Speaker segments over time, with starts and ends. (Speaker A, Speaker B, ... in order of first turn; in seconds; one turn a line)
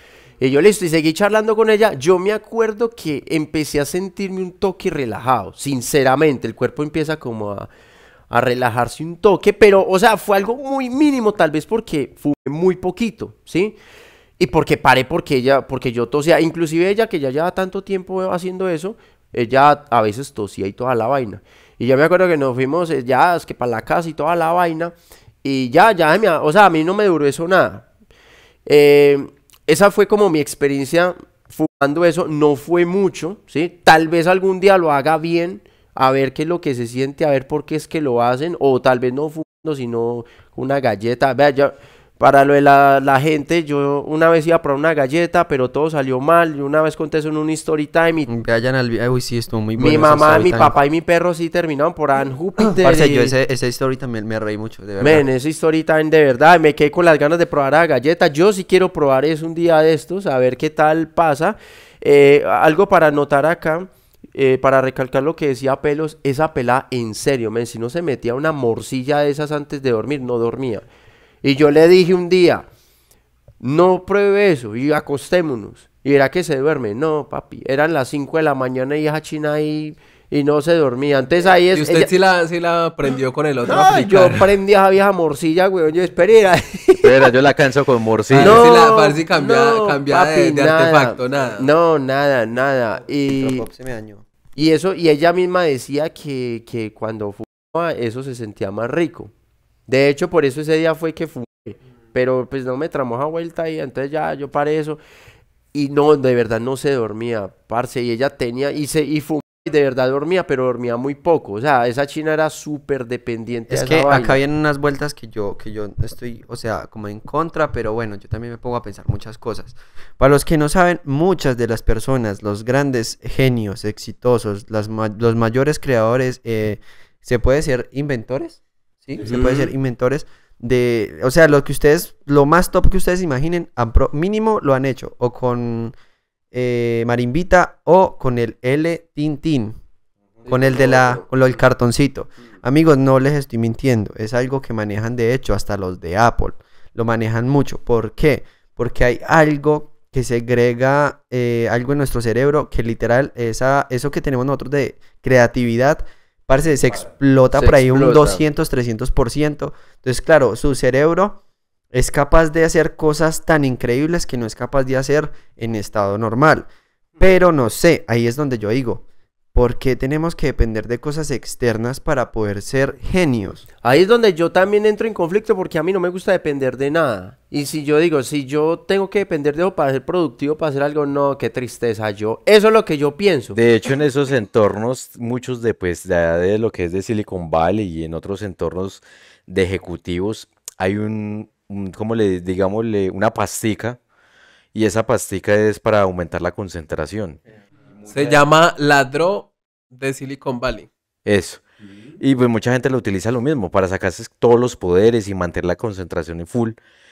Speaker A: 0.4-7.7
Speaker A: 8.3-13.8
Speaker A: 14.4-27.9
Speaker A: 28.6-48.3
Speaker B: 48.3-50.7
Speaker A: 49.8-53.3
Speaker B: 52.8-55.2
Speaker A: 55.0-70.8
Speaker A: 71.4-72.7
Speaker A: 73.6-82.1
Speaker C: 81.7-84.5
Speaker A: 83.7-87.1
Speaker D: 87.0-88.7
Speaker C: 88.3-91.7
Speaker A: 88.3-93.7
Speaker B: 93.3-94.2
Speaker A: 94.5-99.3
Speaker A: 99.9-105.0
Speaker A: 105.7-114.4
Speaker B: 113.7-135.9
Speaker A: 129.2-129.7
Speaker B: 136.5-139.8
Speaker A: 140.5-141.1
Speaker B: 140.5-161.4
Speaker A: 157.6-158.4
Speaker B: 161.9-166.7
Speaker B: 167.2-173.7
Speaker A: 173.8-183.6
Speaker D: 183.5-194.0
Speaker D: 194.7-197.4
Speaker C: 198.1-200.9
Speaker D: 201.2-201.6
Speaker D: 202.2-206.8